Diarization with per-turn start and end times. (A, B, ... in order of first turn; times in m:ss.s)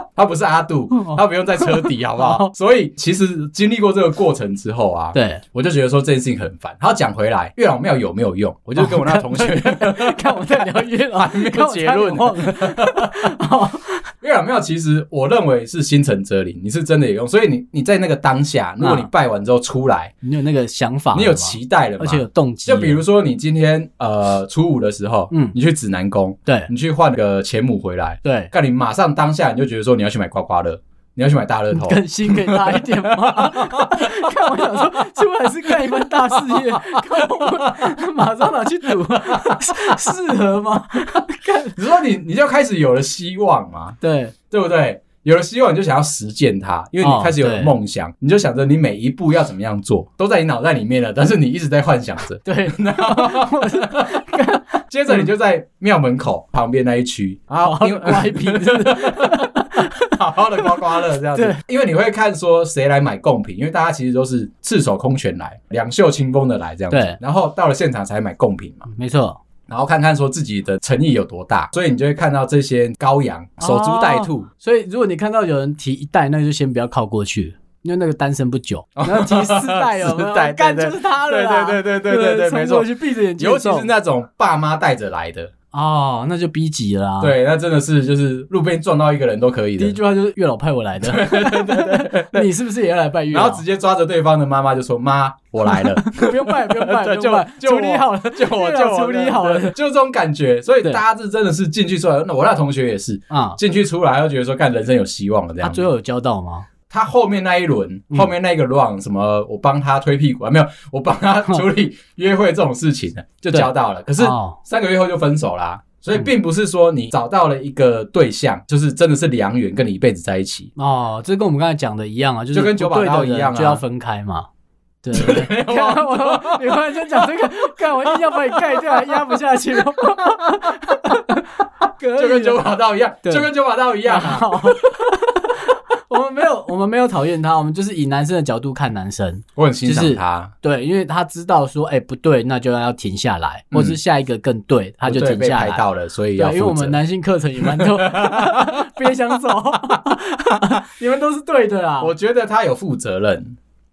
0:00.2-0:13.2 A
0:00.9-0:02.5 B
0:05.1-0:05.4 B
0:08.8-0:14.0 B
0:14.2-0:20.1 A
0:18.8-0:19.1 B
0:20.2-0:23.0 B
0:21.1-0:34.9 A
0:25.3-0:25.6 B
0:28.2-0:28.5 B
0:31.7-0:41.8 B
0:35.7-0:38.1 A
0:38.8-0:40.0 A
0:41.8-0:44.0 A
0:44.0-0:44.3 B
0:44.5-0:54.3 A
0:47.0-0:47.7 B
0:52.4-0:55.3 B
0:54.9-1:08.9 A
0:57.6-1:01.6 B
1:06.9-1:07.2 B
1:08.9-1:09.4 B
1:09.7-1:14.5 A
1:13.6-1:23.9 B
1:19.0-1:25.5 A
1:25.7-1:27.4 B
1:27.2-1:30.0 A
1:29.8-1:33.6 B
1:31.0-1:32.5 A
1:33.3-1:45.9 A
1:35.7-1:39.8 B
1:43.3-1:43.6 B
1:45.6-1:46.7 B
1:46.9-2:00.7 A
1:53.5-1:54.6 B
2:00.8-2:04.5 B
2:02.5-2:03.8 A
2:05.0-2:12.6 B
2:05.1-2:11.2 A
2:12.1-2:15.1 A
2:14.0-2:25.8 B
2:19.6-2:20.5 A
2:23.7-2:24.0 A
2:25.0-2:27.0 A
2:26.4-2:32.1 B
2:27.6-2:28.9 A
2:32.0-2:33.6 A